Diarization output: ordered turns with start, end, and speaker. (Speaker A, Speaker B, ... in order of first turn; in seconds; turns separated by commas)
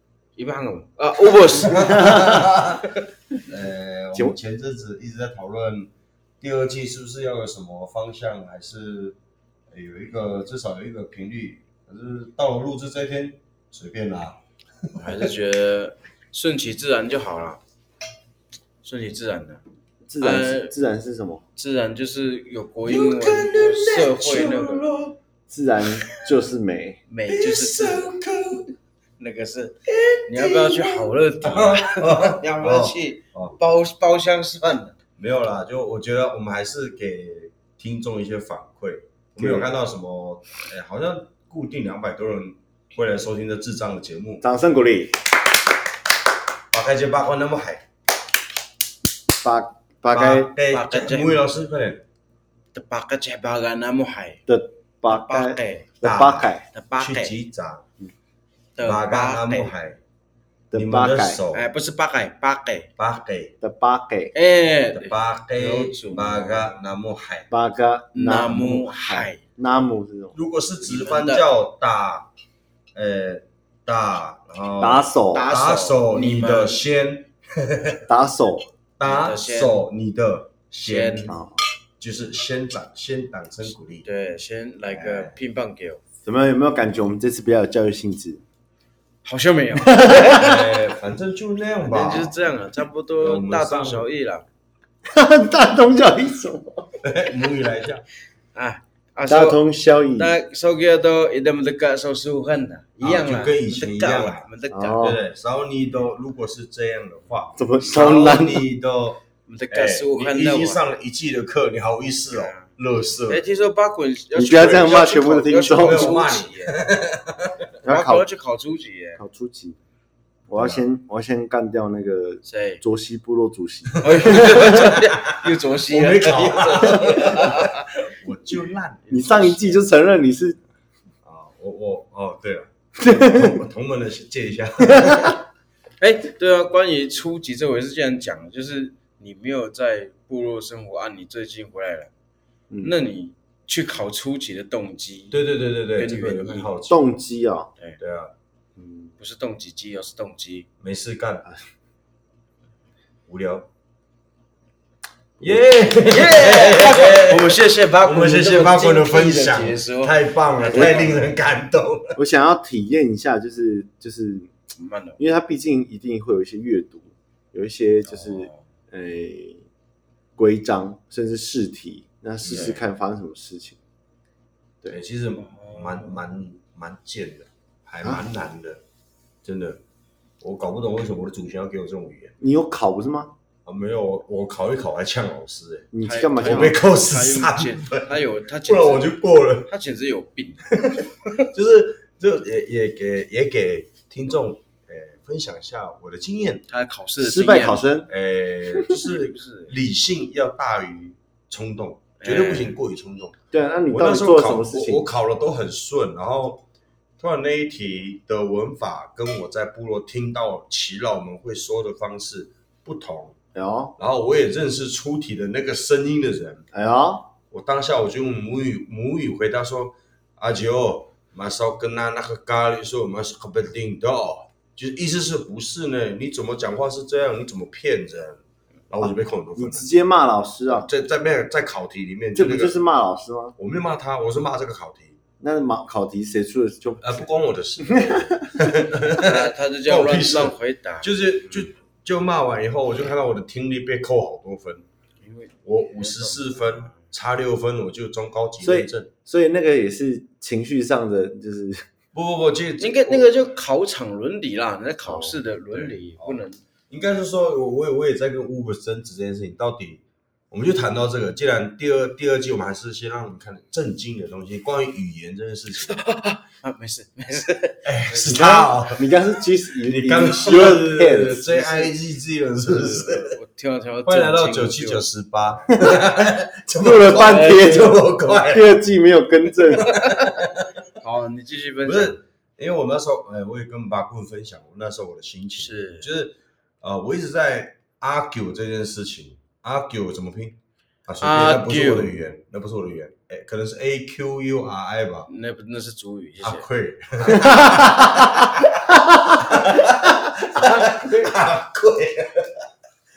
Speaker A: 0.4-3.0, Speaker B: 1.4-2.8, Speaker C: 1.7-2.6, Speaker B: 3.4-9.2, Speaker B: 9.7-15.3, Speaker A: 14.9-17.6, Speaker A: 18.8-19.6, Speaker C: 20.1-21.4, Speaker A: 20.2-20.8, Speaker A: 21.6-24.9, Speaker B: 22.8-25.2, Speaker C: 25.5-27.0, Speaker A: 27.1-28.1, Speaker B: 27.3-28.8, Speaker A: 29.2-34.9, Speaker B: 29.9-33.6, Speaker B: 35.2-44.5, Speaker C: 39.4-39.7, Speaker C: 44.4-45.2, Speaker B: 46.7-47.9, Speaker C: 49.4-50.5, Speaker B: 50.1-52.0, Speaker A: 50.7-51.5, Speaker A: 52.7-54.4, Speaker C: 54.5-56.7, Speaker A: 55.1-56.0, Speaker B: 56.0-57.9, Speaker A: 56.7-57.3, Speaker A: 58.8-59.7, Speaker B: 58.8-60.0, Speaker C: 60.7-61.4, Speaker B: 60.7-61.7, Speaker A: 61.5-62.9, Speaker B: 63.0-63.5, Speaker C: 63.6-64.3, Speaker A: 64.3-66.7, Speaker B: 64.9-67.5, Speaker C: 67.5-70.4, Speaker A: 68.1-69.4, Speaker B: 70.3-72.3, Speaker A: 70.8-71.5, Speaker B: 73.0-78.1, Speaker C: 74.8-75.5, Speaker A: 75.3-76.8, Speaker C: 78.1-78.7, Speaker B: 79.0-81.4, Speaker A: 79.0-79.8, Speaker A: 80.8-81.3, Speaker C: 81.3-81.6, Speaker B: 82.0-84.1, Speaker A: 84.0-86.0, Speaker B: 84.9-85.4, Speaker C: 86.2-88.4, Speaker A: 89.2-90.8, Speaker C: 89.8-90.4, Speaker B: 90.0-92.5, Speaker A: 91.8-94.5, Speaker B: 93.2-94.1, Speaker C: 95.1-96.9, Speaker B: 97.0-98.0, Speaker A: 98.5-99.6, Speaker C: 99.3-100.3, Speaker A: 100.2-105.2, Speaker B: 103.0-113.4, Speaker C: 104.7-105.2, Speaker C: 107.6-108.7, Speaker A: 109.5-110.9, Speaker A: 112.2-112.7, Speaker A: 113.3-116.9, Speaker C: 114.3-116.2, Speaker B: 115.8-117.5, Speaker C: 117.8-118.3, Speaker A: 117.8-119.2, Speaker C: 119.2-119.8, Speaker C: 120.5-124.9, Speaker B: 120.5-120.8, Speaker A: 122.4-122.8, Speaker A: 124.0-127.8, Speaker B: 124.0-129.1, Speaker A: 129.1-129.9, Speaker C: 129.1-130.6, Speaker B: 131.2-135.4, Speaker C: 133.0-133.6, Speaker C: 134.9-135.4, Speaker A: 136.0-142.1, Speaker C: 142.7-143.0, Speaker A: 142.8-145.4, Speaker B: 145.3-147.1, Speaker A: 145.9-146.8, Speaker C: 146.9-147.7, Speaker B: 148.0-148.3, Speaker C: 148.8-149.1, Speaker A: 149.2-150.7, Speaker B: 150.8-151.5, Speaker B: 153.3-153.7, Speaker C: 155.4-155.7, Speaker B: 155.4-162.2, Speaker A: 156.0-161.3, Speaker C: 160.7-161.1, Speaker C: 162.2-164.5, Speaker A: 164.8-165.2, Speaker C: 165.2-169.7, Speaker A: 168.1-168.6, Speaker C: 170.4-173.8, Speaker B: 172.4-172.8, Speaker A: 172.5-172.8, Speaker B: 174.9-178.8, Speaker A: 175.4-176.2, Speaker B: 179.4-179.8, Speaker B: 180.4-182.3, Speaker C: 182.4-183.3, Speaker B: 183.7-189.7, Speaker C: 185.9-186.8, Speaker A: 186.0-190.7, Speaker B: 190.7-196.7, Speaker A: 196.7-197.9, Speaker C: 197.2-198.1, Speaker B: 198.1-203.4, Speaker A: 198.9-199.8, Speaker A: 202.2-202.8, Speaker C: 203.5-205.1, Speaker B: 203.9-206.6, Speaker B: 207.2-213.4, Speaker C: 213.6-213.9, Speaker B: 214.0-216.7, Speaker C: 216.7-217.3, Speaker B: 217.5-229.9, Speaker C: 229.0-230.9, Speaker B: 230.7-232.8, Speaker C: 232.3-233.6, Speaker B: 233.6-235.2, Speaker C: 235.4-237.3, Speaker B: 237.0-244.8, Speaker C: 237.8-238.5, Speaker A: 239.2-241.7, Speaker A: 245.2-247.0, Speaker B: 245.7-249.1, Speaker C: 248.6-251.8, Speaker B: 252.1-253.3, Speaker A: 252.8-256.6, Speaker C: 255.0-255.4, Speaker B: 255.7-266.0, Speaker A: 265.8-268.5, Speaker B: 267.9-269.1, Speaker C: 268.3-271.9, Speaker B: 269.8-273.4, Speaker A: 272.7-275.1, Speaker B: 274.1-278.8, Speaker C: 276.8-279.9, Speaker A: 277.2-278.0, Speaker B: 279.8-280.7, Speaker A: 279.9-280.3, Speaker A: 281.0-282.2, Speaker B: 281.8-295.3, Speaker A: 285.6-286.1, Speaker A: 291.2-292.2, Speaker A: 295.3-296.7, Speaker B: 296.4-302.5, Speaker C: 297.5-298.1, Speaker C: 300.6-301.3